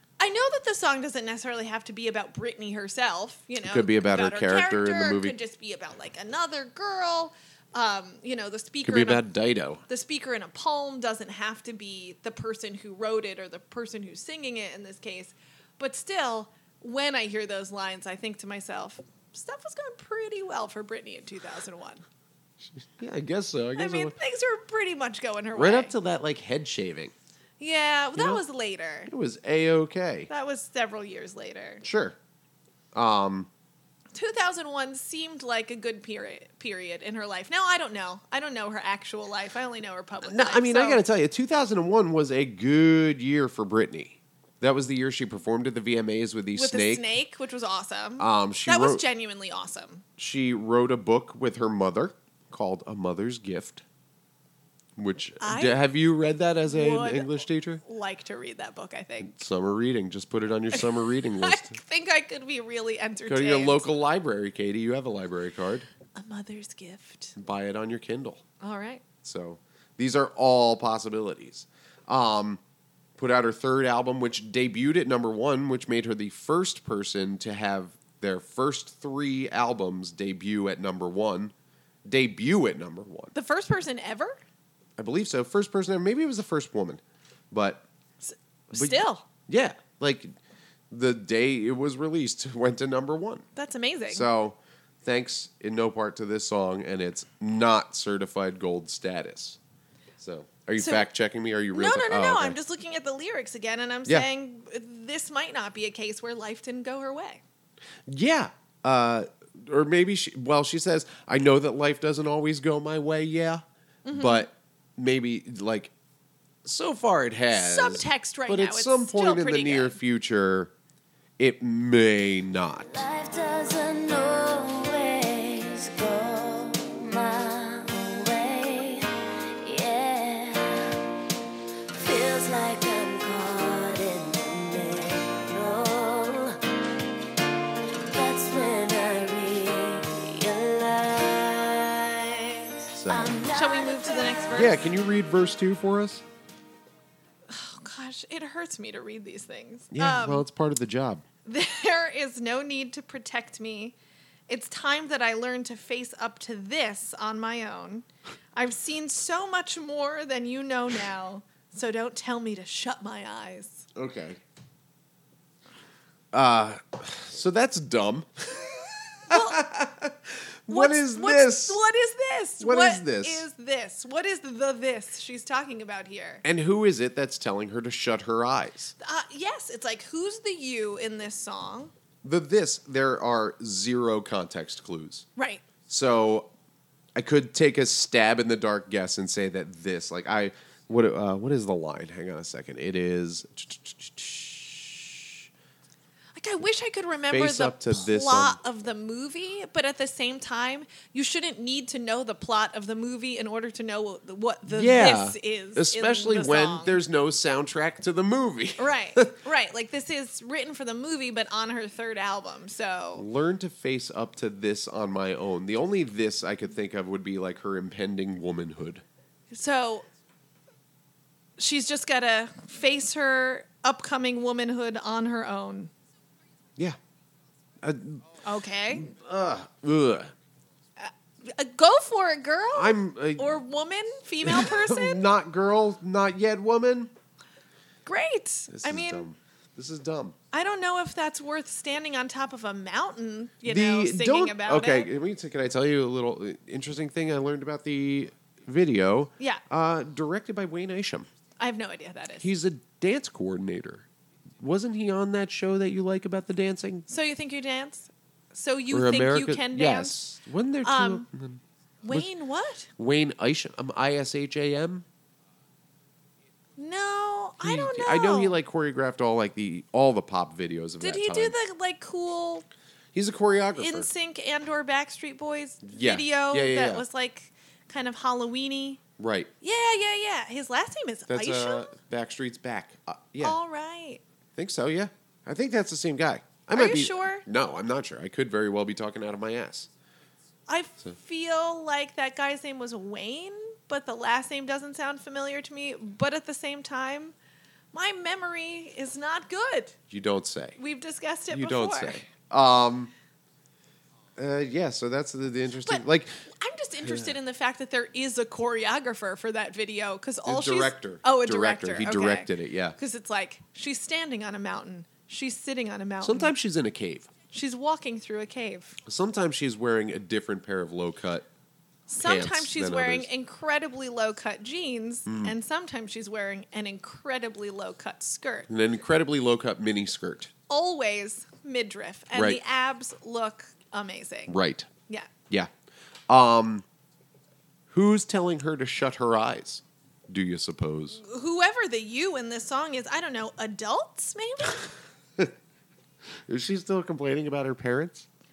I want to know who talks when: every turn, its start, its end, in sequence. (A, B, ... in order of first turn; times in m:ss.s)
0:00.2-0:09.2 A
0:03.6-0:05.4 B
0:08.8-0:09.8 B
0:09.9-0:22.0 A
0:22.7-0:24.1 B
0:23.8-0:25.9 A
0:25.5-0:27.1 B
0:27.6-0:29.1 A
0:28.2-0:28.4 B
0:29.1-0:30.3 B
0:30.3-0:31.8 A
0:31.8-0:32.2 B
0:32.9-0:33.5 B
0:34.1-0:41.0 A
0:40.2-0:47.0 B
0:46.6-0:50.0 A
0:48.2-0:49.0 B
0:50.2-0:53.8 B
0:55.0-0:57.8 B
0:55.4-0:55.8 A
0:56.7-0:59.3 A
0:59.2-1:01.8 B
1:00.7-1:03.8 A
1:03.3-1:05.9 B
1:06.2-1:07.3 A
1:07.4-1:08.4 B
1:08.6-1:09.0 A
1:09.2-1:12.6 B
1:13.2-1:21.5 B
1:22.0-1:23.3 B
1:23.3-1:24.4 A
1:25.0-1:27.8 B
1:28.3-1:29.2 A
1:28.7-1:30.3 B
1:30.9-1:33.4 B
1:33.6-1:34.2 A
1:34.1-1:39.6 B
1:40.2-1:42.6 B
1:40.8-1:41.0 A
1:41.7-1:47.4 A
1:48.1-1:55.9 B
1:54.0-1:54.5 A
1:56.6-2:00.7 B
1:57.5-2:00.0 A
2:01.4-2:02.9 B
2:02.9-2:11.0 C
2:11.9-2:16.7 C
2:18.0-2:24.6 C
2:22.9-2:23.4 B
2:23.5-2:24.9 A
2:24.5-2:26.2 B
2:27.5-2:30.4 A
2:29.9-2:31.2 B
2:31.4-2:34.0 A
2:34.5-2:43.8 A
2:43.9-2:44.4 B
2:46.3-2:51.8 B
2:49.3-2:49.6 A
2:50.7-2:56.4 A
2:52.6-2:53.4 B
2:56.4-2:58.9 B
2:59.0-3:01.9 A
3:02.2-3:05.2 B
3:05.4-3:05.6 A
3:05.9-3:06.5 B
3:07.2-3:15.4 B
3:16.4-3:27.0 A
3:17.3-3:18.6 B
3:24.7-3:29.4 B
3:28.8-3:33.2 A
3:33.2-3:39.0 B
3:39.5-3:40.0 A
3:41.6-3:45.9 A
3:47.8-3:48.2 B
3:48.4-3:49.1 A
3:48.9-3:50.3 B
3:51.0-3:55.2 A
3:52.7-3:53.6 B
3:54.4-3:57.1 B
3:58.0-3:59.2 A
3:58.7-4:00.4 B
4:00.5-4:05.1 A
4:03.6-4:11.3 B
4:11.6-4:12.5 A
4:12.4-4:14.0 B
4:14.6-4:17.1 B
4:17.1-4:20.2 A
4:18.9-4:22.3 B
4:20.8-4:21.2 A
4:22.0-4:22.9 A
4:23.0-4:25.0 B
4:26.8-4:28.6 A
4:27.6-4:31.5 B
4:31.0-4:32.6 A
4:33.1-4:34.1 B
4:33.8-4:39.0 A
4:35.8-4:37.0 B
4:39.2-4:39.5 B
4:39.6-4:41.9 A
4:41.3-4:43.6 B
4:43.4-4:44.2 A
4:44.6-4:49.9 B
4:46.7-4:47.4 A
4:50.7-4:57.3 A
4:57.9-5:00.0 A
5:00.1-5:00.8 B
5:00.8-5:02.2 A
5:01.5-5:03.1 B
5:04.4-5:06.4 B
5:06.6-5:16.5 A
5:07.0-5:07.3 B
5:10.4-5:13.0 B
5:16.2-5:17.3 B
5:17.5-5:19.0 A
5:19.0-5:21.5 B
5:22.1-5:28.7 A
5:22.2-5:23.3 B
5:25.2-5:25.5 B
5:28.7-5:30.5 B
5:30.7-5:34.5 A
5:32.3-5:32.6 B
5:34.5-5:34.9 B
5:36.3-5:36.8 B
5:37.9-5:41.2 B
5:41.2-5:44.9 A
5:46.5-5:48.2 B